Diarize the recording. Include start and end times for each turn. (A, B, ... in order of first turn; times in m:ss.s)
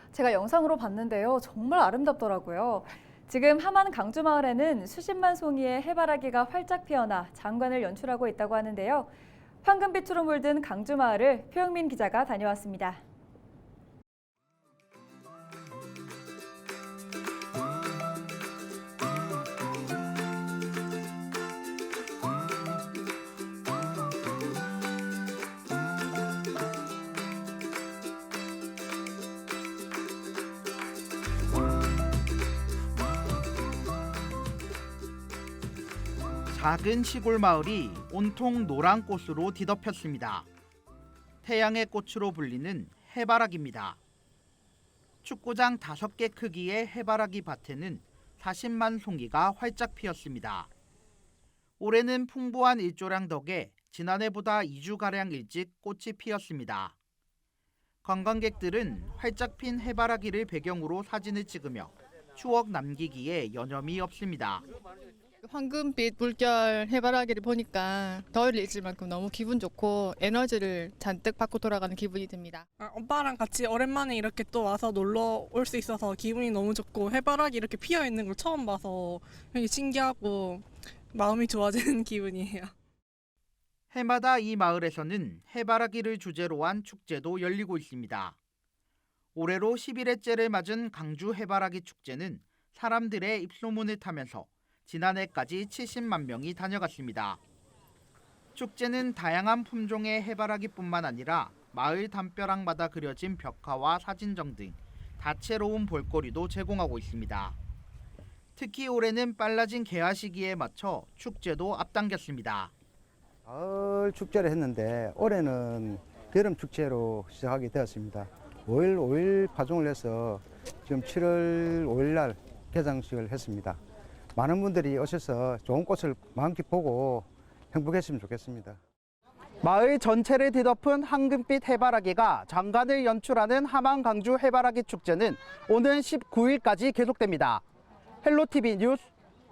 0:00.1-0:09.1 A
0:09.6-0:13.0 A
0:36.5-0:40.5 B
0:41.4-0:44.0 B
0:45.2-0:50.7 B
0:51.8-0:57.0 B
0:58.0-1:04.6 B
1:05.4-1:12.7 C
1:12.8-1:22.7 D
1:23.9-1:28.4 B
1:29.4-1:37.4 B
1:38.6-1:47.6 B
1:48.6-1:52.7 B
1:53.5-2:03.8 E
2:04.4-2:08.8 E
2:09.6-2:17.6 B
2:18.2-2:19.0 B